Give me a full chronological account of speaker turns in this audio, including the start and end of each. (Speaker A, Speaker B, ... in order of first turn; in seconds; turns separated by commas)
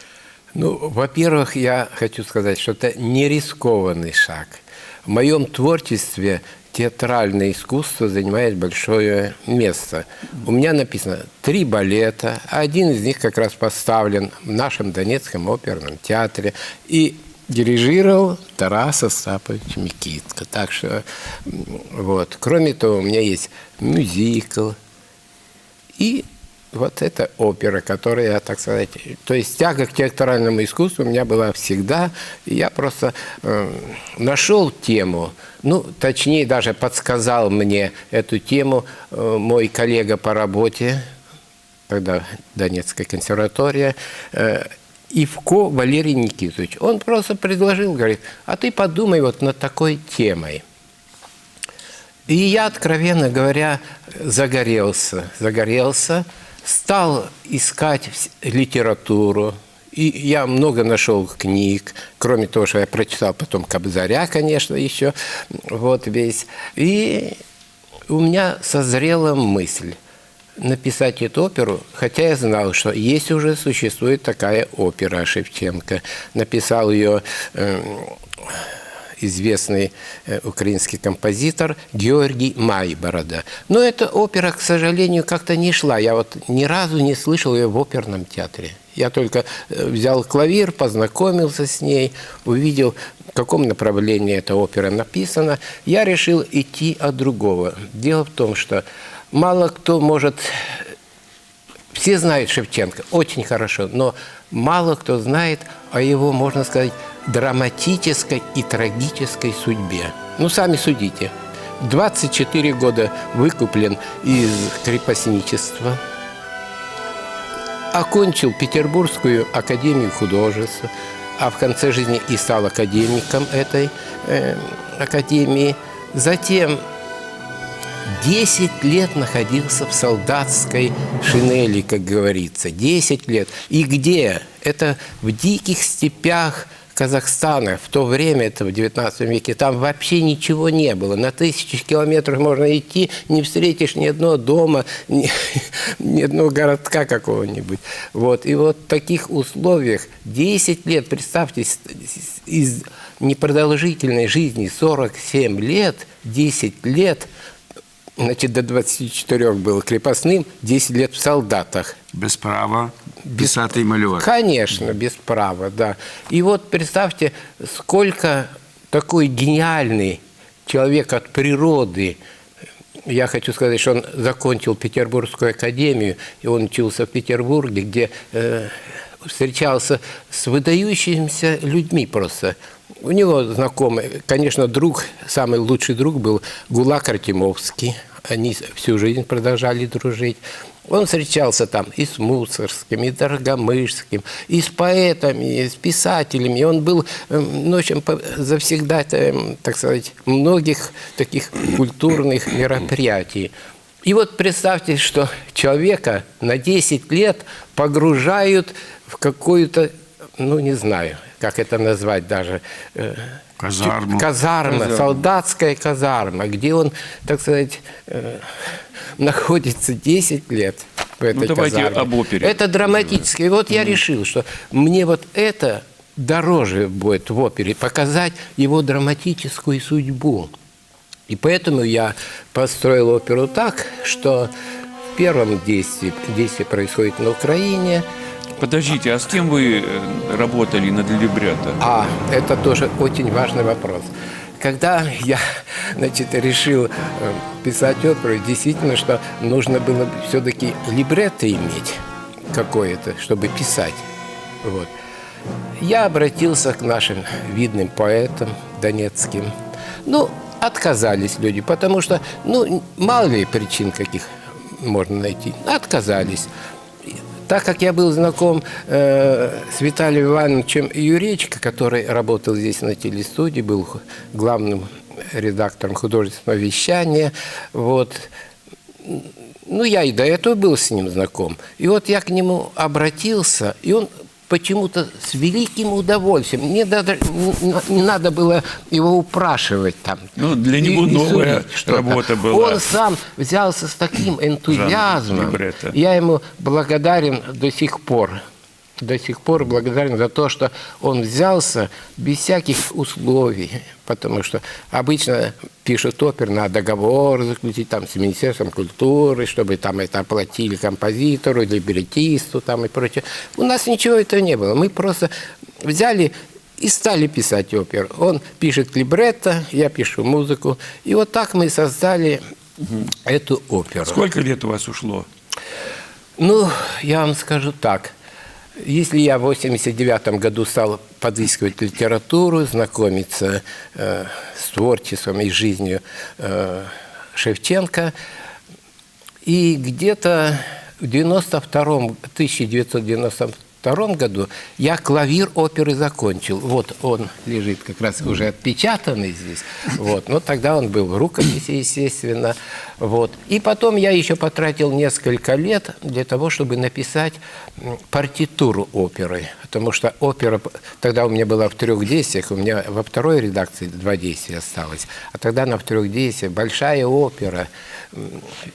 Speaker A: 0.5-24.8, Speaker A: 26.0-41.0, Speaker A: 41.9-50.6, Speaker A: 52.3-67.4, Speaker A: 68.1-70.0, Speaker A: 70.6-78.6, Speaker A: 79.2-100.8, Speaker A: 101.9-116.0, Speaker A: 117.9-126.8, Speaker A: 128.1-157.3, Speaker A: 158.2-161.9, Speaker B: 162.1-164.3, Speaker A: 164.2-172.2, Speaker A: 173.1-203.5, Speaker A: 204.0-218.5, Speaker B: 213.6-214.3, Speaker C: 214.7-215.2, Speaker A: 219.2-230.5, Speaker C: 221.3-223.2, Speaker A: 231.3-234.5, Speaker A: 235.1-238.1, Speaker C: 238.6-241.8, Speaker A: 241.8-251.9, Speaker A: 252.5-254.0, Speaker A: 254.6-254.9, Speaker A: 255.8-259.5, Speaker A: 260.1-264.3, Speaker A: 264.8-266.5, Speaker A: 267.5-278.3, Speaker A: 279.0-290.2, Speaker C: 290.4-292.8, Speaker A: 290.8-298.4, Speaker C: 294.7-295.9, Speaker A: 299.0-315.3, Speaker A: 315.8-322.4, Speaker A: 323.2-324.2, Speaker C: 324.0-325.3, Speaker A: 326.4-328.1, Speaker A: 328.8-338.1, Speaker A: 339.4-368.4